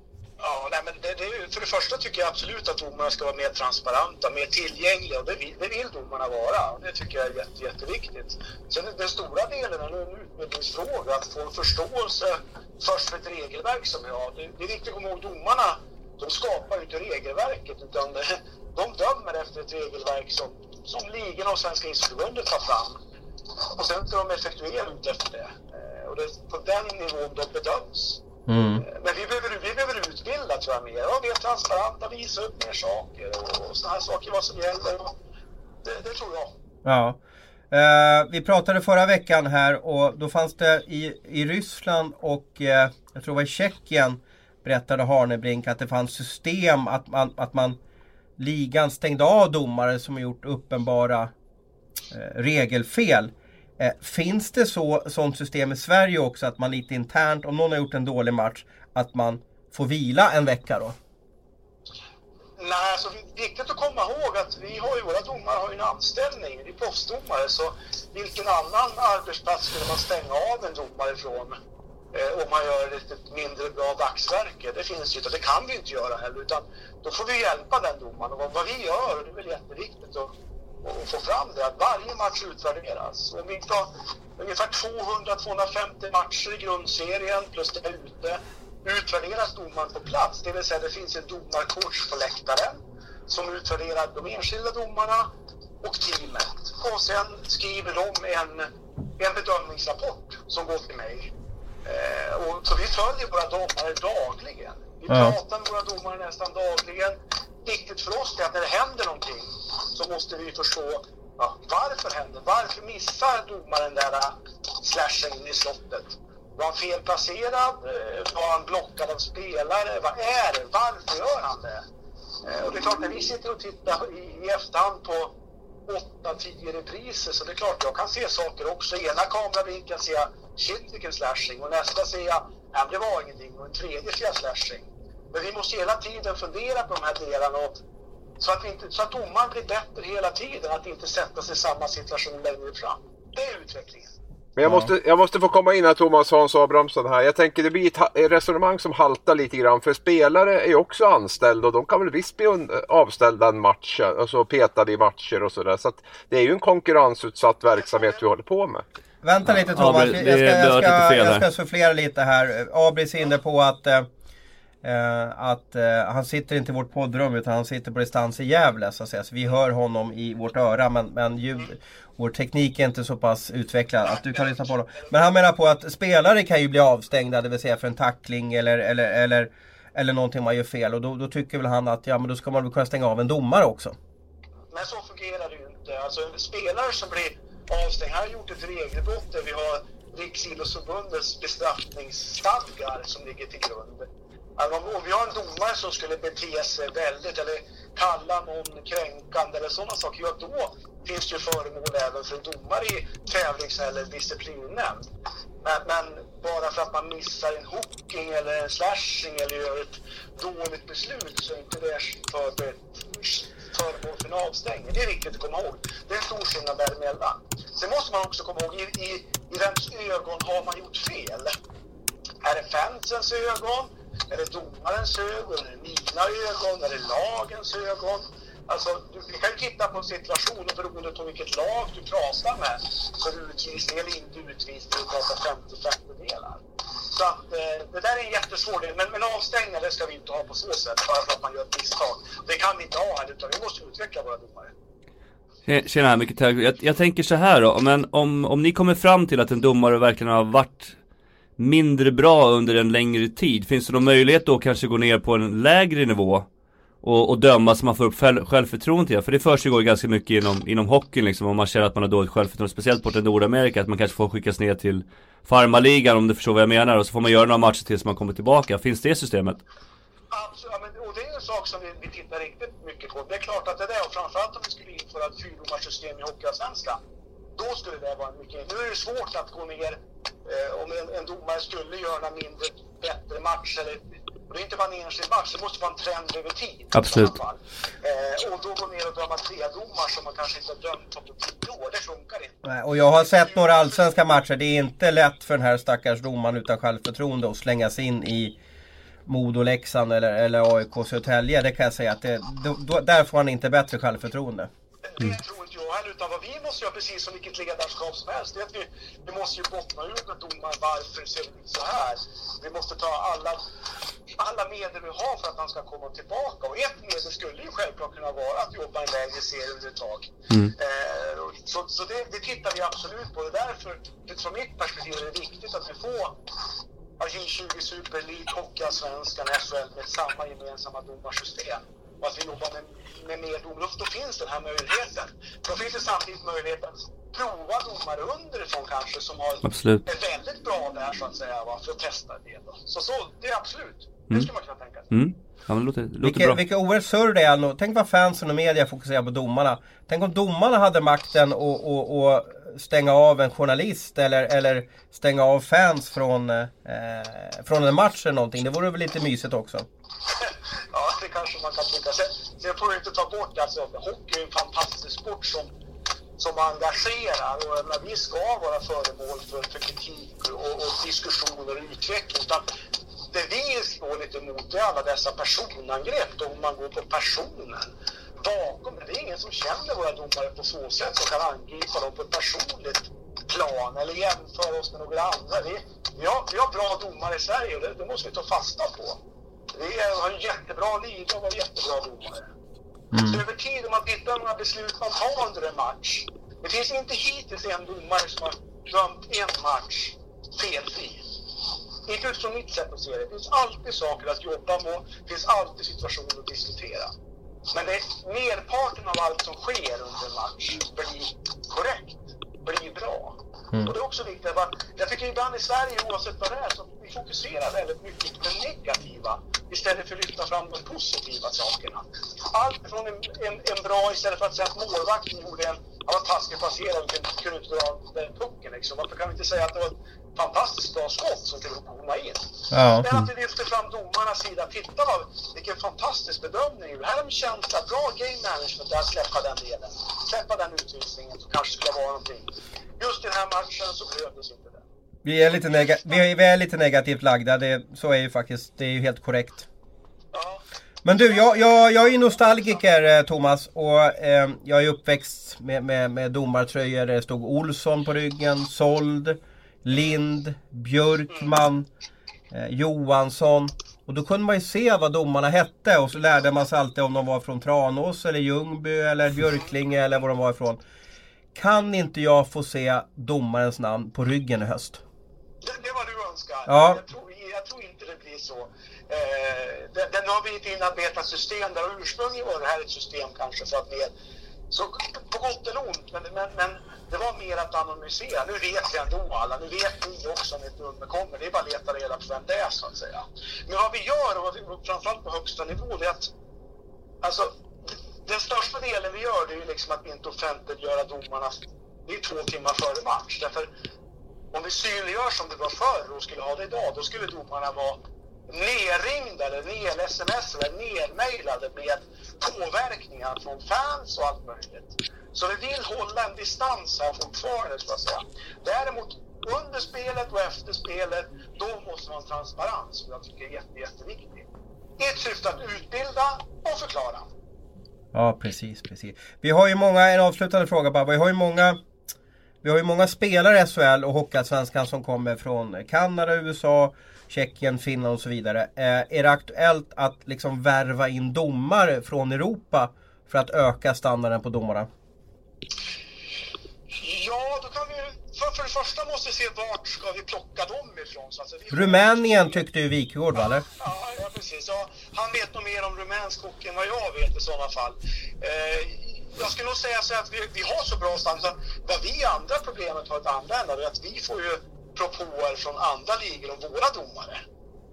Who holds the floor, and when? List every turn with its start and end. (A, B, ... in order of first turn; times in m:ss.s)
0:00.4-0:23.0 A
0:23.6-0:28.2 A
0:28.5-0:28.8 B
0:28.8-0:35.2 A
0:35.8-0:36.5 A
0:36.8-0:37.2 B
0:37.7-0:47.8 B
0:48.4-0:51.3 B
0:52.1-1:00.9 B
1:02.6-1:11.6 A
1:12.1-1:35.3 A
1:35.8-1:41.3 A
1:41.8-2:01.8 A
1:45.1-1:45.4 B
2:02.4-2:05.4 A
2:05.9-2:17.8 A
2:18.4-2:24.1 A
2:24.6-2:38.8 C
2:24.6-2:24.9 B
2:39.2-2:44.1 B
2:39.4-2:41.4 D
2:44.8-3:04.0 B
2:54.0-2:55.1 A
3:04.7-3:25.1 A
3:25.6-3:41.5 A
3:42.4-4:04.7 A
4:05.7-4:11.0 D
4:11.6-4:16.5 D
4:17.0-4:29.6 D
4:30.3-4:37.0 A
4:37.6-4:54.1 A
4:46.9-4:47.3 D
4:52.6-4:58.6 B
4:59.2-5:04.7 B
5:05.1-5:13.6 A
5:14.3-5:26.4 A
5:27.2-5:45.1 A
5:39.6-5:40.0 D
5:45.1-5:46.6 D
5:46.2-5:59.9 B
6:00.4-6:05.7 A
6:06.4-6:12.6 A
6:13.3-6:29.2 A
6:29.7-6:32.5 A
6:33.1-6:33.4 B
6:33.2-6:41.3 A
6:42.0-6:47.1 A
6:47.7-7:24.8 A
7:12.7-7:13.3 B
7:25.2-7:29.7 B
7:25.7-7:26.2 A
7:30.3-7:30.6 A
7:31.0-7:41.9 B
7:31.2-7:32.7 A
7:42.5-7:50.8 B
7:51.5-7:55.0 B
7:55.6-8:04.1 A
7:56.7-7:57.0 B
8:04.7-8:16.3 A
8:17.2-8:17.5 A
8:18.2-8:23.7 A
8:24.5-8:44.5 A
8:45.0-8:47.3 A
8:48.1-8:51.8 B
8:52.6-9:04.9 B
9:06.9-9:12.6 A
9:11.7-9:13.6 B
9:13.6-9:27.4 A